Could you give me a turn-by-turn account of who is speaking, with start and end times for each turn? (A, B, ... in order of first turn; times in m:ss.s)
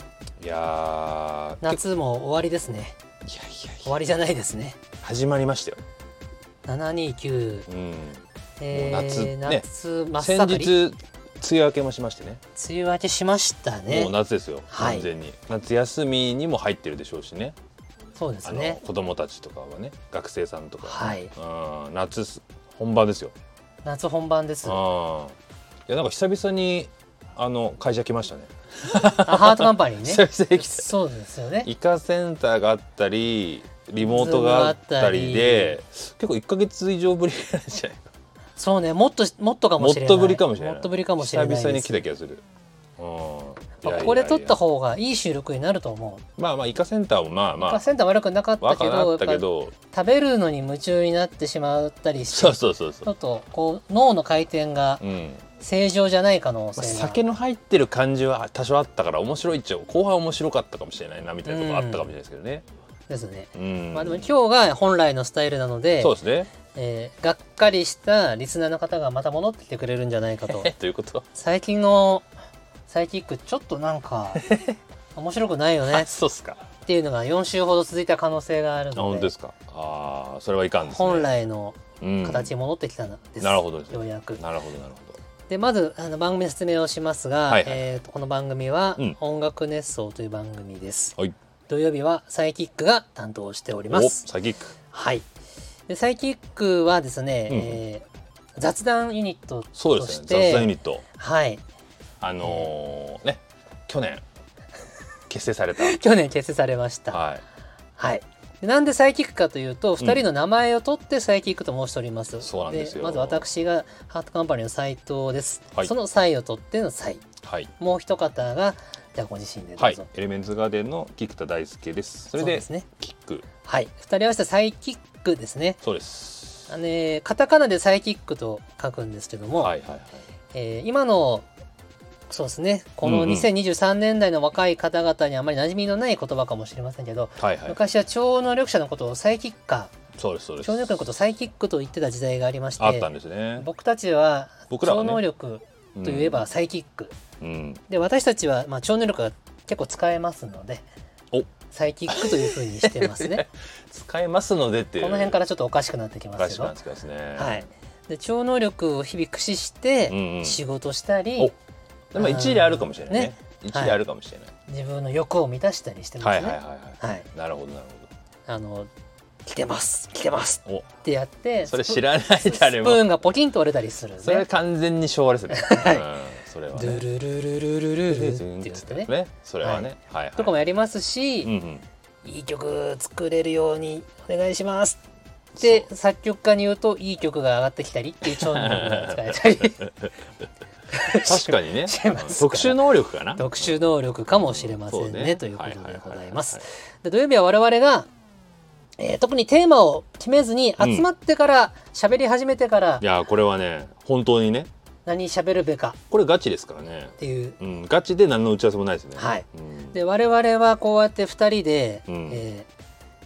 0:00.4-0:01.8 A
0:01.6-0:03.0 B
0:03.2-0:03.9 A
0:03.8-0:04.8 B
0:05.0-0:05.8 A
0:06.7-0:07.7 B
0:07.7-0:09.6 A
0:08.6-0:10.8 B
0:10.2-0:12.4 A
0:12.6-0:14.1 B
0:13.9-0:17.6 A
0:14.7-0:15.1 B
0:18.2-0:18.8 B
0:18.4-0:23.4 A
0:20.8-0:21.3 B
0:23.8-0:24.8 B
0:24.6-0:25.4 A
0:25.9-0:30.9 A
0:29.2-0:31.7 B
0:31.6-0:38.0 A
0:34.0-0:35.8 B
0:38.6-0:42.0 B
0:39.8-0:42.4 A
0:43.0-0:44.6 A
0:43.8-0:46.2 B
0:46.4-0:47.8 A
0:47.6-0:55.0 B
0:48.6-0:49.7 A
0:52.3-0:53.1 A
0:55.0-0:55.4 A
0:55.6-0:57.2 B
0:56.8-1:02.6 A
1:01.5-1:02.1 B
1:03.1-1:10.7 B
1:03.6-1:04.3 A
1:06.0-1:06.5 A
1:10.5-1:11.3 A
1:11.3-1:12.3 B
1:12.9-1:14.4 B
1:14.4-1:14.8 A
1:15.2-1:16.1 B
1:15.8-1:16.7 A
1:16.8-1:19.3 B
1:19.0-1:21.3 A
1:20.8-1:24.4 B
1:22.0-1:22.5 A
1:23.4-1:25.2 A
1:25.5-1:31.2 B
1:27.5-1:27.9 A
1:31.7-1:34.3 B
1:33.9-1:34.8 A
1:34.9-1:35.3 B
1:35.9-1:38.1 B
1:37.5-1:37.8 A
1:38.6-1:41.6 B
1:39.8-1:41.0 A
1:42.2-1:44.2 A
1:42.4-1:42.7 B
1:45.3-1:46.0 A
1:45.8-1:47.2 B
1:47.1-1:47.4 A
1:48.0-1:57.2 B
1:52.4-1:53.4 A
1:57.4-1:57.7 A
1:57.8-2:00.0 B
1:59.8-2:03.4 A
2:02.4-2:02.9 B
2:03.6-2:05.8 B
2:05.8-2:06.7 A
2:06.7-2:09.7 B
2:09.6-2:10.2 A
2:10.5-2:11.4 B
2:12.3-2:19.9 B
2:13.0-2:13.5 A
2:17.4-2:17.8 A
2:20.2-2:21.0 A
2:20.6-2:27.2 B
2:22.8-2:23.7 A
2:24.7-2:25.2 A
2:26.0-2:26.4 A
2:27.4-2:27.8 A
2:27.9-2:30.9 B
2:31.7-2:33.4 B
2:32.1-2:35.4 A
2:35.0-2:36.7 B
2:36.4-2:37.7 A
2:37.4-2:41.5 B
2:40.1-2:40.6 A
2:42.1-2:44.5 A
2:42.2-2:44.0 B
2:44.7-2:47.3 B
2:46.2-2:48.1 A
2:48.5-2:48.9 B
2:49.5-2:54.5 B
2:51.7-2:53.1 A
2:54.2-2:57.0 A
2:55.5-2:56.1 B
2:56.7-2:59.1 B
2:58.1-3:00.5 A
2:59.6-3:01.5 B
3:01.4-3:01.8 A
3:02.2-3:05.0 B
3:05.6-3:05.9 A
3:05.6-3:09.9 B
3:08.2-3:10.1 A
3:10.9-3:18.1 B
3:11.2-3:13.8 A
3:14.4-3:16.6 A
3:19.0-3:23.0 B
3:20.8-3:21.1 A
3:23.0-3:24.7 A
3:25.1-3:26.0 B
3:26.1-3:30.0 A
3:27.2-3:27.6 B
3:29.2-3:32.7 B
3:32.1-3:32.4 A